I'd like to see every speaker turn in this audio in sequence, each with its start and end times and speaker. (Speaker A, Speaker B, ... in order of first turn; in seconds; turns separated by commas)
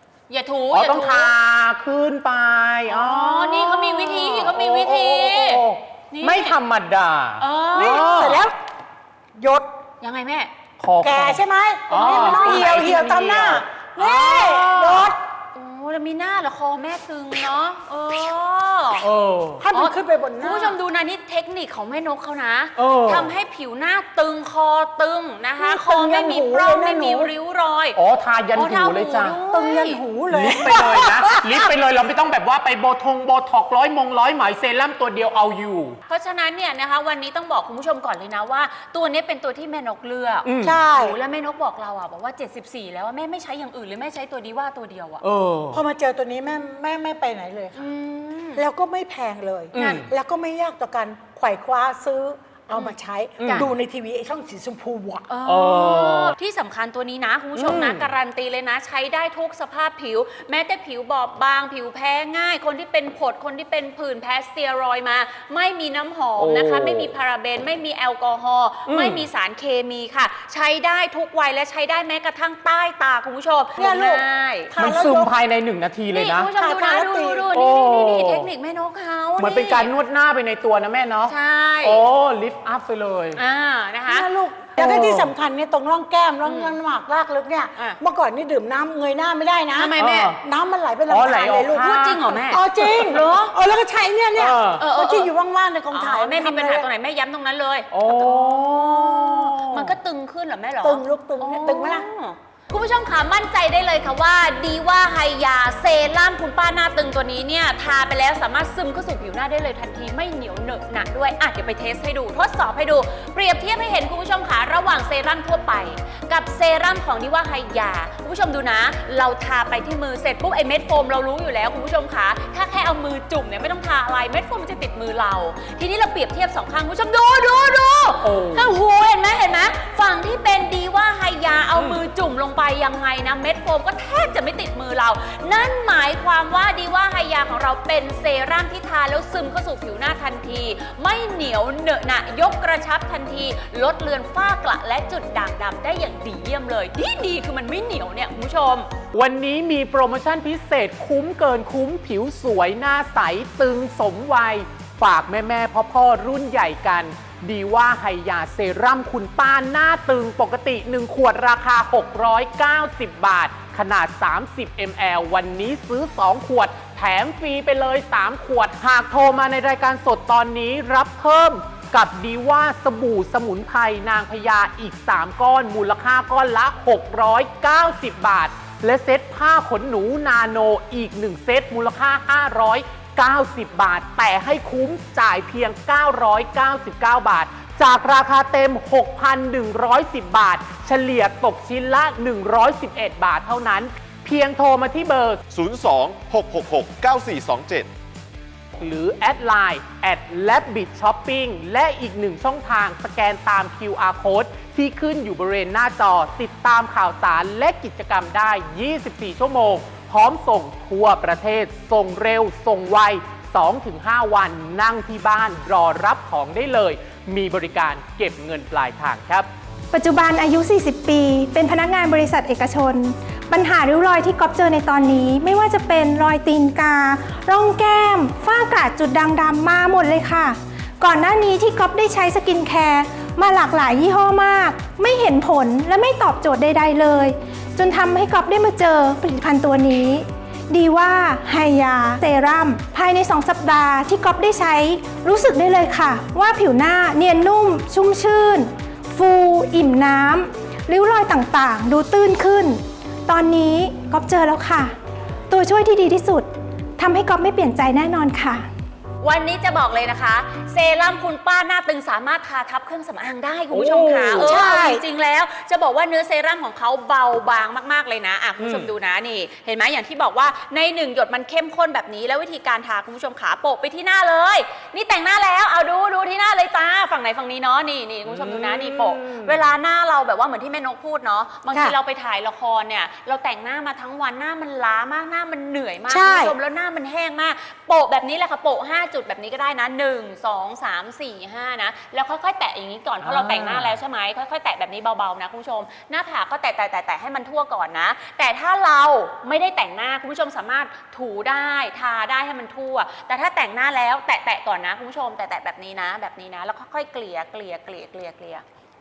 Speaker A: 0.3-1.3, Speaker B: 0.7-8.4, Speaker A: 2.9-6.5, Speaker A: 7.4-8.1, Speaker C: 7.8-8.6, Speaker C: 9.4-9.7, Speaker A: 10.0-10.5, Speaker B: 10.8-15.2, Speaker C: 11.0-15.2, Speaker A: 11.9-13.2, Speaker A: 15.6-19.1, Speaker B: 19.0-19.6, Speaker C: 19.6-20.8, Speaker A: 19.7-28.0, Speaker B: 22.8-23.3, Speaker C: 25.6-27.3, Speaker B: 27.9-29.4, Speaker A: 28.5-30.0, Speaker C: 29.5-31.2, Speaker B: 30.3-36.0, Speaker A: 30.6-31.7, Speaker A: 36.1-45.2, Speaker B: 40.5-40.8, Speaker C: 40.6-41.2, Speaker B: 45.2-45.8, Speaker C: 45.7-47.9, Speaker A: 47.8-48.6, Speaker C: 48.6-55.3, Speaker B: 49.7-50.1, Speaker A: 52.7-53.7, Speaker B: 53.4-53.7, Speaker A: 55.3-74.7, Speaker B: 55.5-56.3, Speaker B: 57.6-58.1, Speaker B: 66.4-67.1, Speaker B: 68.9-69.2, Speaker C: 73.8-75.3, Speaker B: 74.8-76.5, Speaker A: 76.1-79.9, Speaker C: 76.6-77.5, Speaker B: 77.5-78.5, Speaker B: 79.4-83.4, Speaker A: 81.3-82.0, Speaker A: 83.4-84.3, Speaker C: 84.1-96.9, Speaker B: 84.8-85.3, Speaker A: 86.4-86.7, Speaker A: 89.8-90.4, Speaker B: 90.0-90.4, Speaker B: 91.1-93.2, Speaker A: 91.7-93.5, Speaker B: 94.4-94.8, Speaker A: 94.8-95.3, Speaker A: 95.9-148.9, Speaker B: 97.9-100.0, Speaker C: 100.8-102.0, Speaker B: 128.2-128.7, Speaker B: 149.1-195.4, Speaker D: 195.5-197.9, Speaker B: 198.8-219.5, Speaker E: 219.9-255.0, Speaker E: 255.5-258.7, Speaker A: 259.2-308.6, Speaker B: 263.7-264.6, Speaker C: 264.4-265.0, Speaker B: 268.6-268.9, Speaker B: 278.3-279.6, Speaker C: 286.1-286.6, Speaker B: 293.2-293.9